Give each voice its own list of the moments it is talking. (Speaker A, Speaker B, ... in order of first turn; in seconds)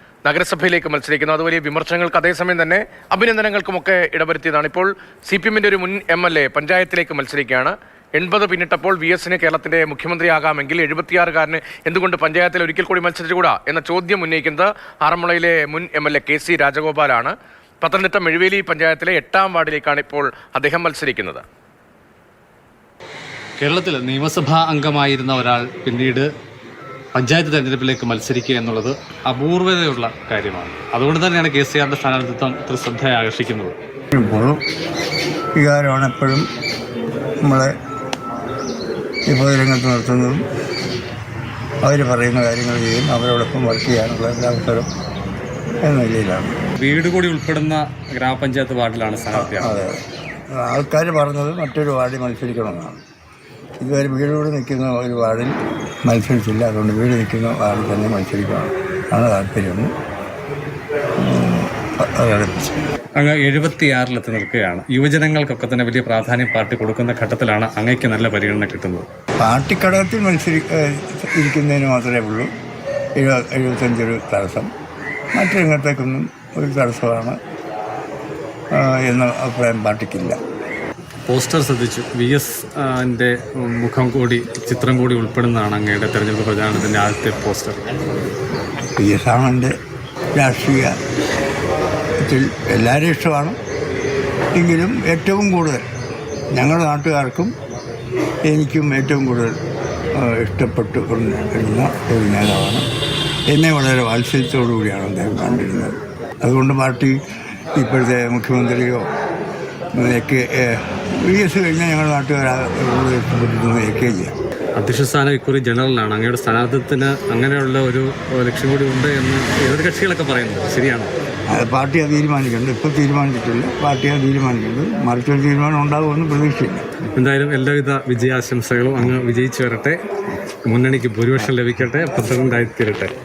Speaker A: 0.2-21.4
Speaker B: 23.6-26.3, 27.1-33.8, 46.8-49.8, 63.2-69.1, 81.3-87.8, 114.8-121.1, 127.1-130.0, 130.6-133.1
Speaker C: 34.1-34.6, 35.5-36.5, 37.4-37.8, 39.3-40.5, 41.8-44.9, 45.8-46.6, 49.4-53.0, 53.8-59.9, 61.2-62.7, 69.4-72.5, 73.2-74.7, 75.3-77.4, 78.7-80.4, 89.0-89.7, 90.3-91.0, 92.2-93.6, 94.5-95.8, 96.5-97.5, 98.5-99.5, 100.1-102.8, 103.5-107.2, 107.8-109.1, 110.0-114.3, 121.5-126.9